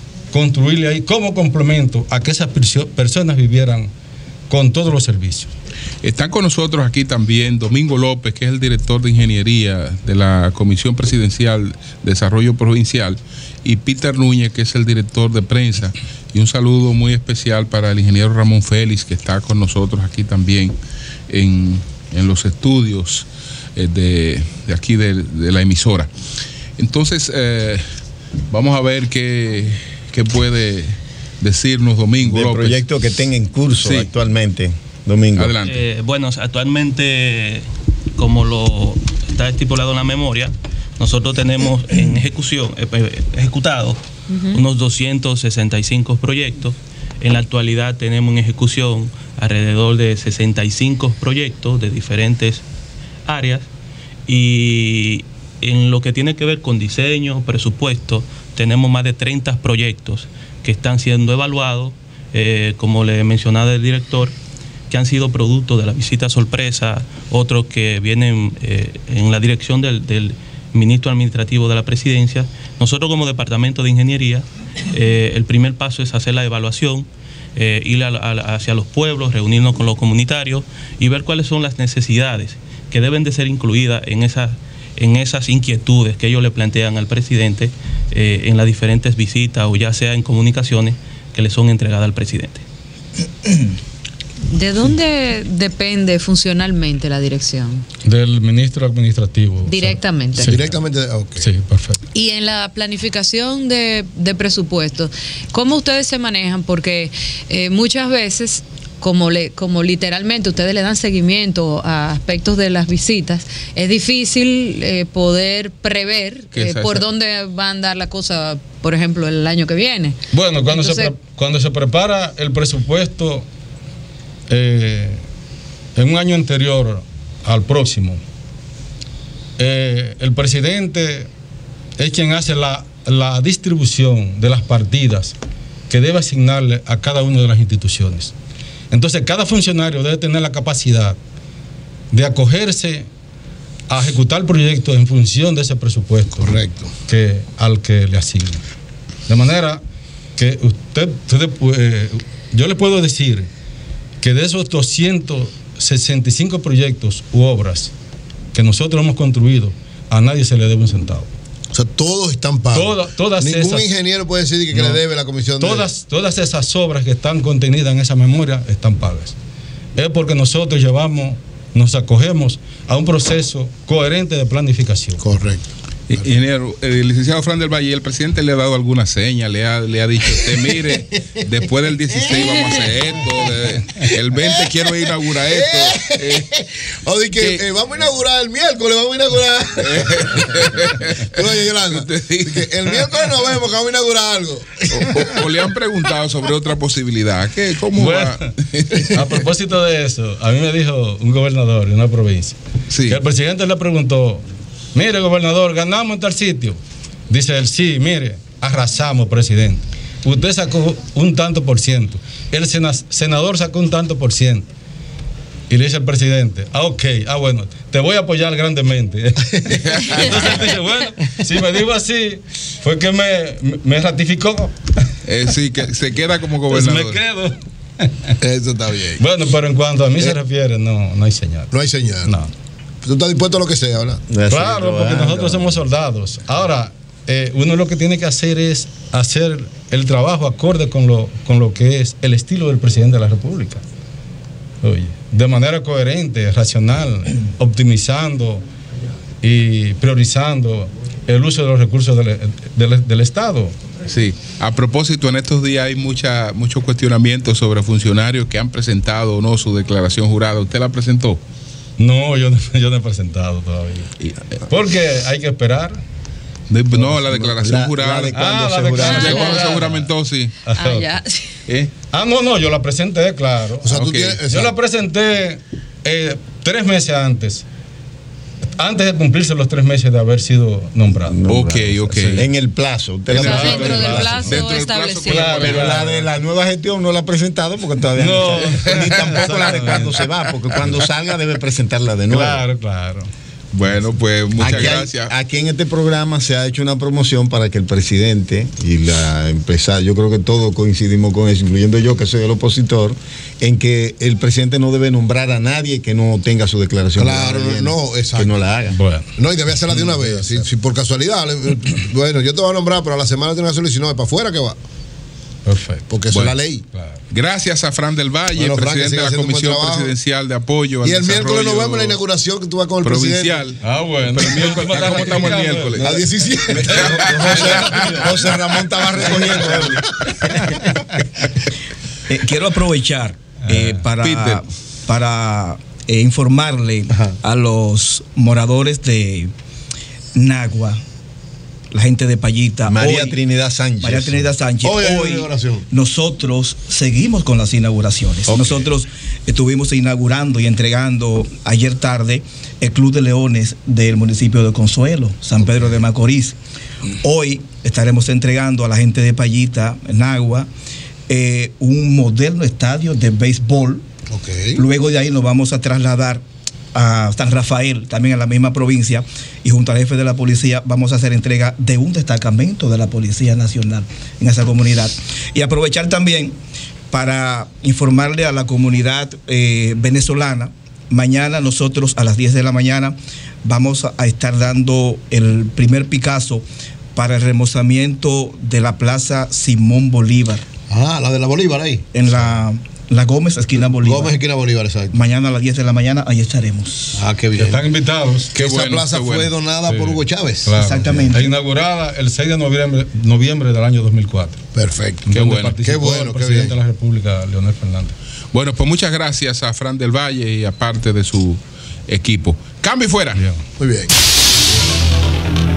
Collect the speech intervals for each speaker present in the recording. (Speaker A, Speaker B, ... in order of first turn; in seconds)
Speaker A: 0.3-3.9, 4.5-5.5, 98.0-100.8, 101.4-102.0, 120.3-123.5, 124.5-125.2, 126.0-128.2, 129.6-131.3, 132.0-135.3, 135.9-138.3, 138.9-141.2, 142.1-143.1, 143.9-148.6, 149.3-149.8, 150.3-153.5, 154.2-157.9, 158.5-161.3, 162.7-163.9, 164.7-165.0, 165.6-169.3, 169.9-175.2, 197.9-198.5, 199.1-214.7, 215.7-224.8, 226.7-228.3, 229.2-231.7, 232.2-232.5, 234.5-243.8, 244.8-248.6, 249.4-253.7, 262.0-264.1, 264.6-266.0, 268.3-270.1, 270.6-271.2, 272.1-273.9, 274.5-277.6, 278.7-281.4, 283.3-284.6, 285.2-286.2, 288.2-290.2, 292.3-293.3, 308.9-309.3, 315.6-316.1, 316.9-317.2, 323.8-326.0, 333.7-333.9, 397.6-398.5, 399.9-404.6, 405.2-408.1, 413.3-413.6
Speaker B: 6.0-20.8, 21.3-26.1, 26.8-27.8, 28.5-32.8, 33.8-34.1, 35.3-35.9, 116.5-117.0, 176.1-186.5, 187.3-187.6, 189.8-193.4, 194.9-199.1, 202.9-203.2, 220.0-220.2, 225.2-227.2, 254.1-261.4, 266.7-268.4, 269.0-270.6, 273.9-274.4, 281.5-282.4, 283.3-283.7, 284.5-285.9, 293.7-295.3, 316.3-316.6, 317.3-322.2, 323.0-326.1, 326.9-328.1, 334.2-334.6, 398.5-399.6, 405.3-405.8, 408.5-413.4
Speaker C: 32.2-35.5, 234.3-235.7, 267.0-269.4, 281.2-284.5, 285.3-292.6, 294.6-308.9, 326.7-330.0, 342.9-344.5
Speaker D: 35.7-37.6, 38.2-44.0, 44.5-52.6, 53.2-53.7, 54.3-64.3, 64.9-92.6
Speaker E: 44.3-44.6, 94.4-97.8, 99.7-100.5, 102.1-120.2, 120.7-121.1, 270.8-271.6, 283.4-285.4
Speaker F: 100.4-101.5, 146.4-146.9, 161.7-165.9, 175.2-176.3, 184.3-195.6, 228.4-229.2, 231.7-232.3, 233.0-234.2, 273.8-274.7, 307.1-308.6, 309.4-314.8, 316.1-316.8, 318.5-320.2, 321.0-323.7, 326.0-330.0, 344.8-345.9, 364.3-364.8, 390.9-392.5, 393.9-395.2, 397.1-397.8, 398.5-400.8, 404.7-406.7, 413.8-414.1
Speaker G: 327.9-328.2, 332.3-339.5, 340.3-341.0, 341.9-343.4, 344.0-356.6, 357.2-360.7, 361.3-364.1, 364.7-366.4, 366.9-376.6, 377.1-386.6, 387.1-390.6, 392.1-394.4, 395.1-397.2, 400.8-401.5